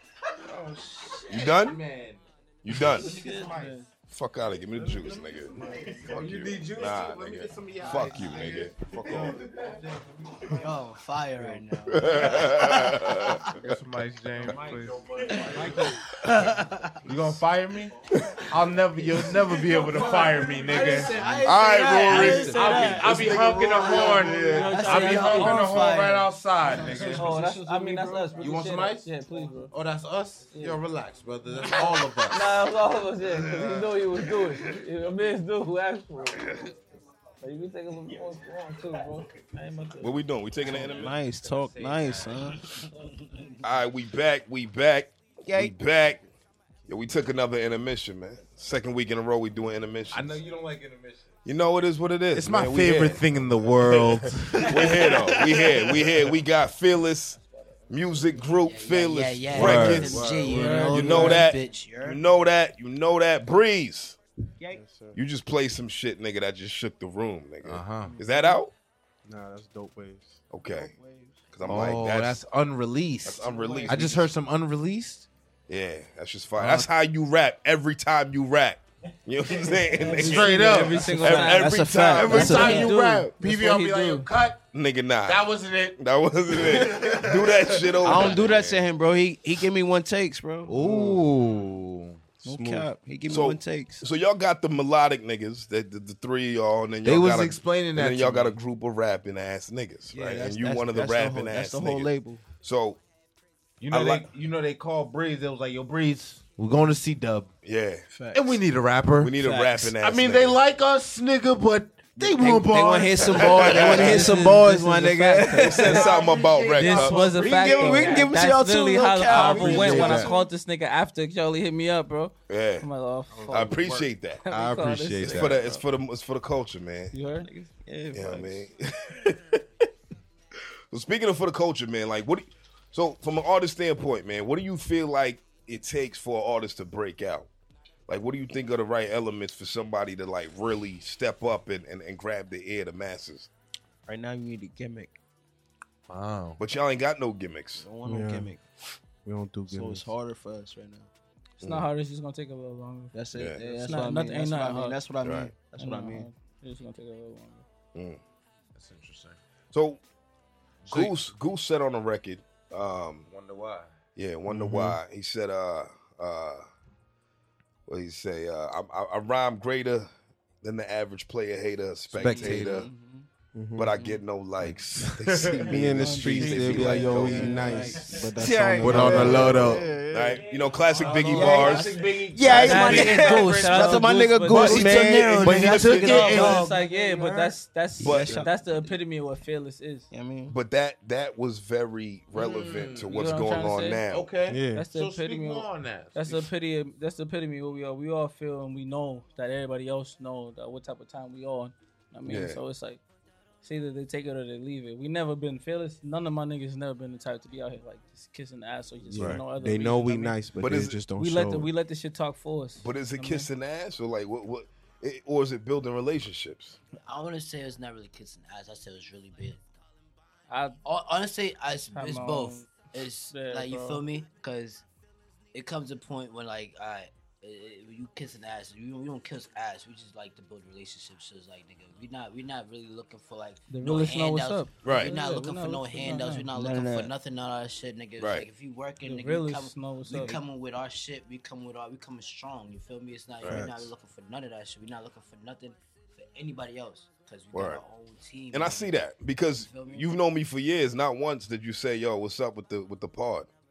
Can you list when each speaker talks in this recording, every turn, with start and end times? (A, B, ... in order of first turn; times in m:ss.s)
0:00.4-0:03.8 A
0:01.3-0:01.8 B
0:02.6-0:03.1 B
0:02.9-0:03.9 C
0:04.1-0:09.4 B
0:05.0-0:10.7 A
0:10.6-0:13.6 D
0:11.4-0:12.2 E
0:11.9-0:13.6 B
0:13.5-0:15.8 A
0:15.3-0:17.0 D
0:15.4-0:15.9 C
0:17.0-0:17.9 A
0:18.1-0:18.5 B
0:18.4-0:27.4 A
0:19.2-0:27.2 D
0:20.7-0:21.5 E
0:21.4-0:22.9 B
0:22.1-0:23.2 C
0:23.8-0:25.9 C
0:26.6-0:28.4 E
0:27.1-0:29.7 C
0:28.4-0:32.6 A
0:30.5-0:30.8 C
0:32.3-0:36.6 C
0:37.4-0:40.2 C
0:40.0-0:41.1 B
0:40.6-0:42.6 A
0:40.8-0:42.9 E
0:43.6-0:46.2 B
0:45.4-0:45.8 E
0:46.9-0:50.4 B
0:50.1-0:51.3 A
0:51.4-0:57.4 B
0:52.3-0:55.2 A
0:57.9-1:00.3 B
0:58.6-1:02.2 D
0:59.5-1:00.9 A
0:59.6-1:00.0 F
1:00.4-1:01.5 C
1:00.8-1:04.2 B
1:04.8-1:05.2 F
1:05.1-1:08.7 B
1:07.6-1:08.2 A
1:09.3-1:10.4 F
1:10.5-1:10.9 B
1:10.6-1:11.4 E
1:11.5-1:12.4 B
1:11.6-1:15.3 A
1:13.2-1:14.3 B
1:13.6-1:13.8 E
1:13.6-1:13.9 D
1:15.7-1:22.9 B
1:16.6-1:16.8 A
1:20.0-1:24.3 C
1:20.1-1:21.4 A
1:21.2-1:23.0 E
1:22.2-1:24.6 A
1:24.7-1:28.8 B
1:25.2-1:26.0 A
1:26.5-1:28.5 A
1:28.0-1:30.9 E
1:30.6-1:32.2 A
1:32.4-1:34.0 E
1:32.4-1:32.8 F
1:33.2-1:43.0 B
1:37.0-1:38.6 A
1:40.1-1:42.4 E
1:43.8-1:47.5 A
1:43.9-1:44.3 B
1:47.6-1:48.0 B
1:48.1-1:48.6 E
1:48.3-1:55.5 A
1:49.2-1:50.6 B
1:52.2-2:00.5 E
1:53.4-1:54.3 B
1:54.0-1:56.1 C
1:55.5-1:57.3 B
1:55.7-1:58.3 D
1:56.8-2:05.8 C
1:59.3-2:00.3 A
1:59.5-2:00.2 F
2:02.5-2:02.9 B
2:03.3-2:04.0 F
2:03.5-2:04.4 B
2:04.5-2:05.6 A
2:05.2-2:07.1 B
2:07.1-2:07.5 C
2:07.4-2:08.7 E
2:08.1-2:09.6 B
2:10.9-2:17.5 B
2:18.1-2:23.5 B
2:24.0-2:25.2 E
2:26.1-2:26.6 A
2:26.6-2:27.9 B
2:27.8-2:28.6 E
2:28.0-2:28.4 F
2:29.2-2:30.1 F
2:29.6-2:31.1 E
2:31.6-2:33.1 C
2:31.6-2:31.9 B
2:33.1-2:36.3 E
2:33.3-2:33.6 B
2:33.7-2:35.0 C
2:35.2-2:35.5 B
2:35.8-2:37.6 C
2:37.9-2:38.2 B
2:38.7-2:39.4 A
2:39.7-2:40.0 B
2:40.8-2:41.2 A
2:40.9-2:43.2 B
2:43.2-2:44.0 A
2:44.2-2:46.6 B
2:44.5-2:44.9 F
2:47.9-2:50.1 B
2:50.6-2:52.9 B
2:52.1-2:52.8 A
2:52.1-2:53.3 E
2:53.5-2:53.9 F
2:53.7-2:57.7 B
2:55.2-2:58.0 A
2:55.4-3:00.0 F
2:55.9-2:58.2 C
2:57.4-3:00.4 E
2:58.8-2:59.9 A
2:59.1-3:02.0 B
3:00.9-3:03.7 A
3:01.0-3:09.0 E
3:01.3-3:06.7 D
3:02.4-3:10.1 C
3:04.5-3:06.7 A
3:04.6-3:05.9 F
3:08.0-3:08.4 B
3:10.1-3:10.6 E
3:10.5-3:14.3 B
3:12.4-3:13.2 A
3:13.0-3:14.0 C
3:14.1-3:16.5 A
3:14.5-3:14.8 F
3:14.7-3:23.0 C
3:22.2-3:22.6 B
3:23.6-3:33.5 C
3:29.1-3:29.4 B
3:29.1-3:31.7 F
3:30.6-3:31.0 B
3:32.8-3:36.8 B
3:37.0-3:39.6 D
3:40.5-3:40.8 C
3:40.8-3:44.8 D
3:41.9-3:44.0 C
3:45.5-4:09.0 D
3:53.7-3:56.5 C
3:54.8-3:55.1 B
3:56.5-3:57.1 E
3:58.2-3:58.5 B
3:59.0-4:00.4 C
4:03.4-4:03.9 B
4:07.5-4:07.8 B
4:08.5-4:13.5 B
4:09.6-4:10.2 D